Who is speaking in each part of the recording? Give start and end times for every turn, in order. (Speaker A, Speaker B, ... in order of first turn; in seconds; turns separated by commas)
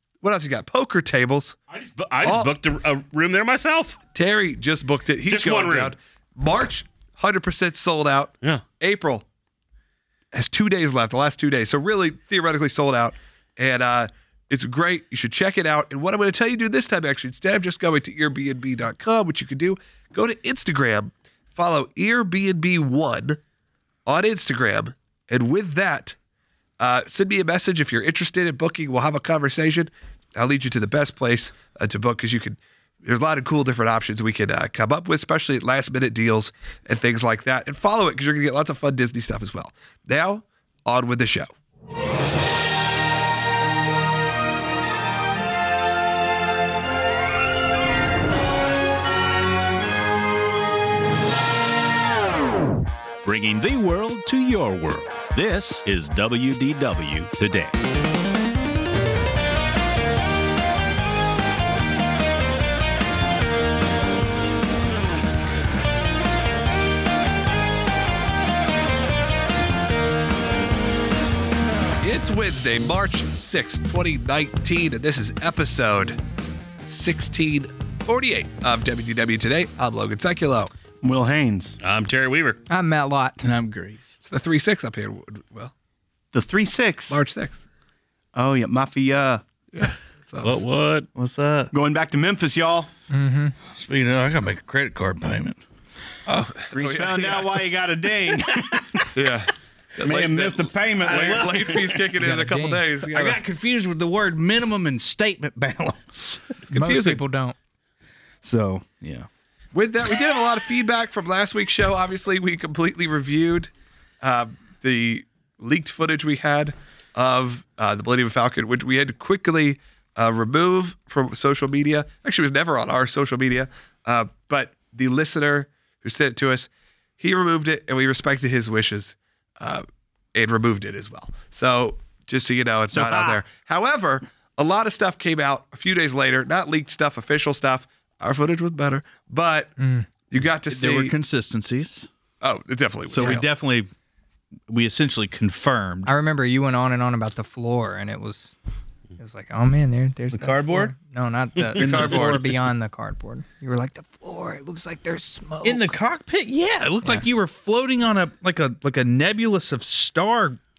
Speaker A: 0.2-1.6, Speaker B: 1.7-4.0, Speaker A: 2.2-2.5, Speaker A: 4.1-9.2, Speaker B: 5.2-5.9, Speaker A: 10.3-23.4, Speaker A: 24.1-26.1, Speaker A: 26.8-41.5, Speaker C: 53.2-57.7, Speaker A: 72.0-76.2, Speaker A: 76.8-80.7, Speaker D: 81.0-81.8, Speaker B: 81.8-82.6, Speaker E: 82.7-83.5, Speaker F: 83.4-84.2, Speaker A: 84.2-85.7, Speaker D: 86.3-87.2, Speaker A: 87.1-87.6, Speaker D: 88.3-89.4, Speaker A: 89.7-90.6, Speaker B: 90.4-91.1, Speaker F: 91.1-91.7, Speaker D: 91.7-92.9, Speaker E: 93.1-93.5, Speaker F: 93.7-95.6, Speaker A: 96.2-97.6, Speaker D: 96.7-99.1, Speaker A: 99.1-103.4, Speaker D: 100.0-102.0, Speaker F: 101.0-102.0, Speaker E: 102.2-102.9, Speaker F: 103.0-106.6, Speaker A: 106.6-107.2, Speaker E: 106.7-107.5, Speaker F: 108.4-109.3, Speaker A: 109.7-113.7, Speaker A: 114.2-139.7, Speaker D: 132.9-133.4, Speaker E: 139.8-140.1, Speaker A: 140.3-141.1, Speaker F: 140.7-142.1, Speaker A: 142.4-143.5, Speaker F: 143.1-143.9, Speaker F: 144.7-146.1, Speaker E: 146.1-148.5, Speaker E: 149.2-155.9, Speaker F: 150.3-150.9, Speaker B: 151.6-152.0, Speaker A: 151.7-152.4, Speaker F: 151.7-152.5, Speaker F: 155.6-160.6